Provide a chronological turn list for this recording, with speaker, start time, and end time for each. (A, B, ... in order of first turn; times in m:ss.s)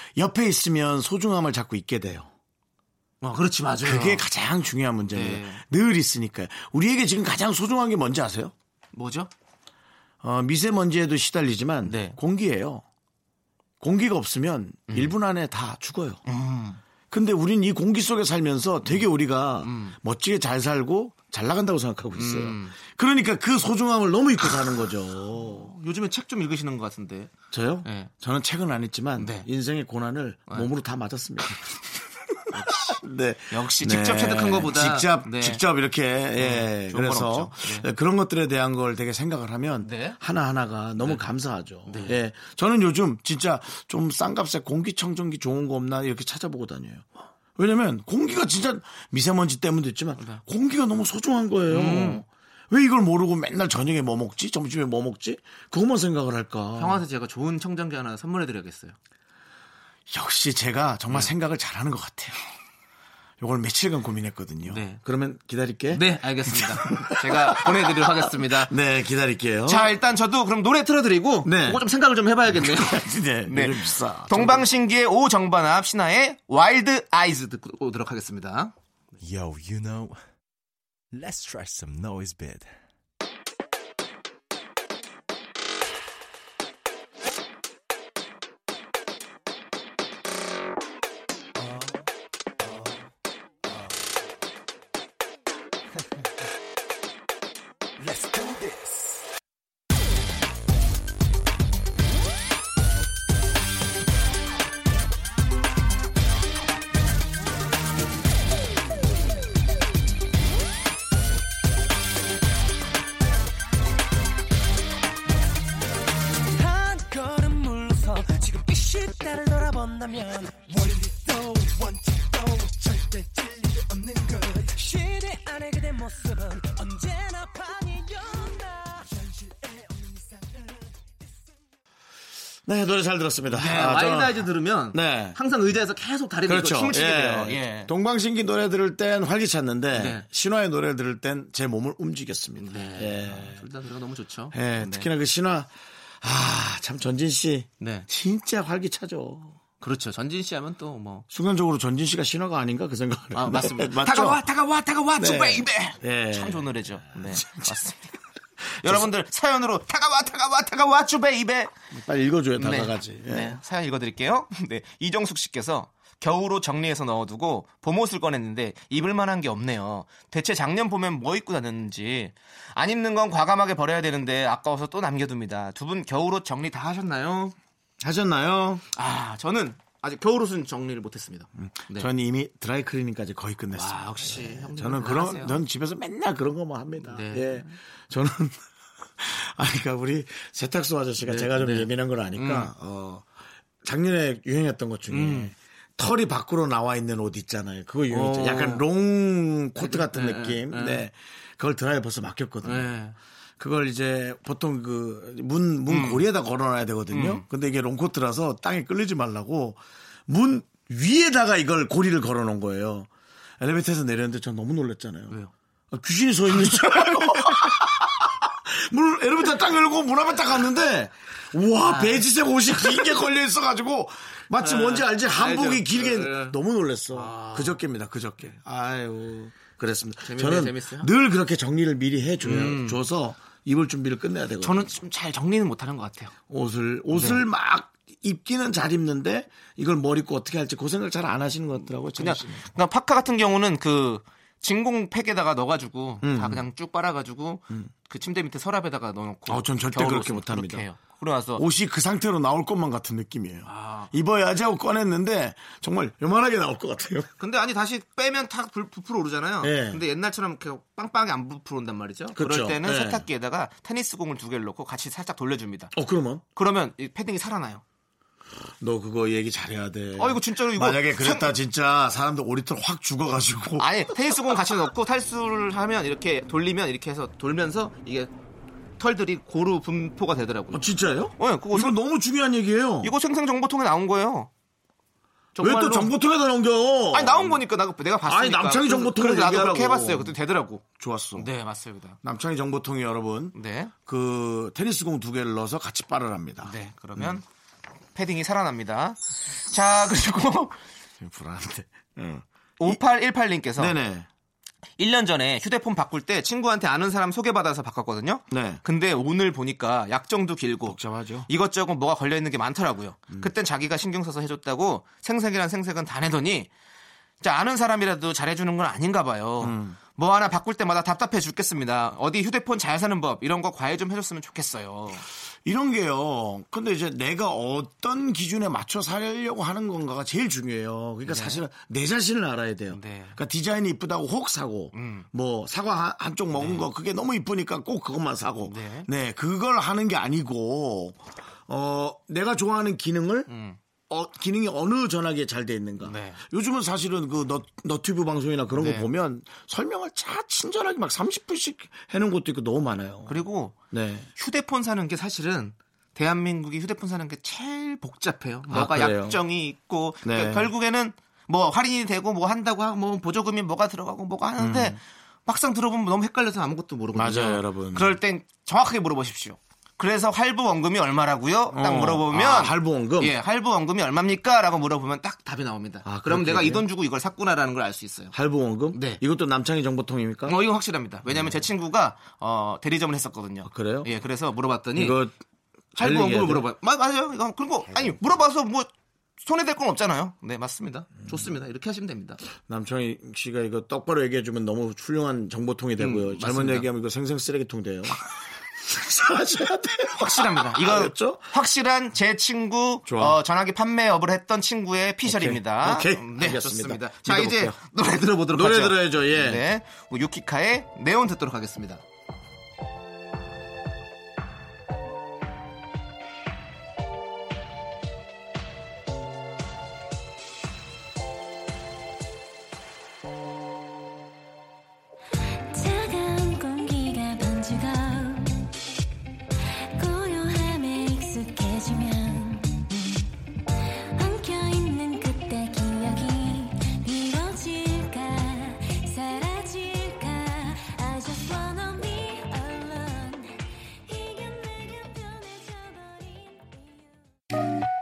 0:00.2-0:02.3 A
0:03.2-0:04.3 B
0:03.8-0:08.5 A
0:05.1-0:05.6 B
0:08.9-0:09.3 B
0:10.2-0:12.8 A
0:11.8-0:12.2 B
0:13.8-0:16.2 A
0:14.9-0:15.1 B
0:16.3-0:16.8 B
0:17.1-0:25.7 A
0:19.6-0:20.0 B
0:22.2-0:22.8 B
0:25.4-0:27.3 B
0:27.5-0:31.7 A
0:27.8-0:28.1 B
0:29.2-0:29.5 B
0:32.5-0:35.6 B
0:32.6-0:57.0 A
0:36.4-0:37.9 B
0:39.8-0:40.2 B
0:41.9-0:42.2 B
0:51.7-0:52.2 B
0:56.8-0:59.0 B
1:00.1-1:02.4 A
1:03.4-1:09.9 A
1:04.7-1:05.0 B
1:05.9-1:08.7 B
1:09.7-1:18.7 B
1:11.4-1:11.8 A
1:12.5-1:14.7 A
1:19.2-1:20.2 C
1:21.1-1:22.7 C
1:38.0-1:39.2 D
1:56.6-2:10.8 D
2:12.6-2:15.4 A
2:13.5-2:17.9 B
2:16.5-2:23.6 A
2:19.9-2:20.2 B
2:22.6-2:25.1 B
2:24.5-2:29.6 A
2:27.8-2:28.1 B
2:29.8-2:31.3 B
2:31.3-2:34.4 A
2:33.3-2:38.1 B
2:35.2-2:37.8 A
2:38.7-2:41.7 B
2:41.9-2:43.6 A
2:42.6-2:57.6 B
2:58.0-2:58.8 A
2:58.9-3:02.1 B
3:01.6-3:08.6 A
3:03.8-3:05.6 B
3:07.0-3:07.8 B
3:09.2-3:13.3 A
3:11.2-3:12.7 B
3:13.8-3:22.9 A
3:15.1-3:15.5 B
3:18.1-3:18.9 B
3:19.8-3:21.0 B
3:22.6-3:23.2 B
3:23.6-3:35.4 A
3:25.9-3:26.3 B
3:27.1-3:27.4 B
3:35.9-3:54.9 A
3:36.6-3:37.7 B
3:41.8-3:42.2 B
3:44.6-3:46.6 B
3:47.1-3:47.8 B
3:50.2-3:51.1 B
3:52.4-3:53.0 B
3:54.6-3:56.3 B
3:56.5-4:02.6 A
3:57.1-3:57.4 B
4:02.2-4:11.6 B
4:06.2-4:06.6 A
4:09.5-4:10.8 A
4:11.6-4:17.3 A
4:13.7-4:14.1 B
4:17.4-4:25.9 B
4:19.6-4:20.0 A
4:22.3-4:23.2 A
4:25.9-4:26.4 A
4:26.6-4:27.8 B
4:28.8-4:34.3 A
4:30.2-4:31.6 B
4:33.8-4:38.3 B
4:39.0-4:40.8 B
4:40.7-4:43.1 A
4:41.4-4:42.0 B
4:43.0-4:44.5 B
4:45.6-4:46.1 B
4:45.6-4:47.6 A
4:47.1-4:50.8 B
4:48.2-4:50.4 A
4:51.0-4:51.5 A
4:51.4-4:52.2 B
4:52.2-4:57.4 A
4:53.6-4:53.9 B
4:56.6-4:57.4 B
4:58.2-5:00.8 B
5:01.2-5:03.0 A
5:02.8-5:04.0 B
5:03.8-5:04.3 A
5:05.0-5:16.7 B
5:08.5-5:08.8 A
5:10.8-5:11.5 A
5:17.4-5:25.2 B
5:19.6-5:20.0 A
5:25.6-5:43.5 A
5:31.3-5:31.6 B
5:32.9-5:33.4 B
5:34.9-5:35.3 B
5:36.6-5:36.9 B
5:38.6-5:39.1 B
5:43.5-5:43.8 B
5:44.1-5:54.3 A
5:46.0-5:46.4 B
5:48.7-5:49.1 B
5:53.3-5:53.8 B
5:54.4-6:18.3 B
5:58.7-5:59.4 A
6:00.2-6:00.7 A
6:04.6-6:05.0 A
6:07.2-6:08.2 A
6:11.7-6:13.4 A
6:16.0-6:16.9 A
6:18.3-6:20.6 A
6:18.9-6:19.2 B
6:20.5-6:25.2 B
6:21.3-6:21.6 A
6:23.6-6:24.1 A
6:25.0-6:25.4 A
6:26.0-6:26.6 A
6:26.0-6:28.9 B
6:29.4-6:32.4 B
6:32.6-6:38.2 A
6:36.0-6:36.9 B
6:38.8-6:41.5 A
6:40.1-6:52.0 B
6:43.1-6:43.4 A
6:45.2-6:47.8 A
6:48.5-6:49.6 A
7:05.7-7:08.7 E
7:10.0-7:13.3 E
7:14.2-7:27.1 E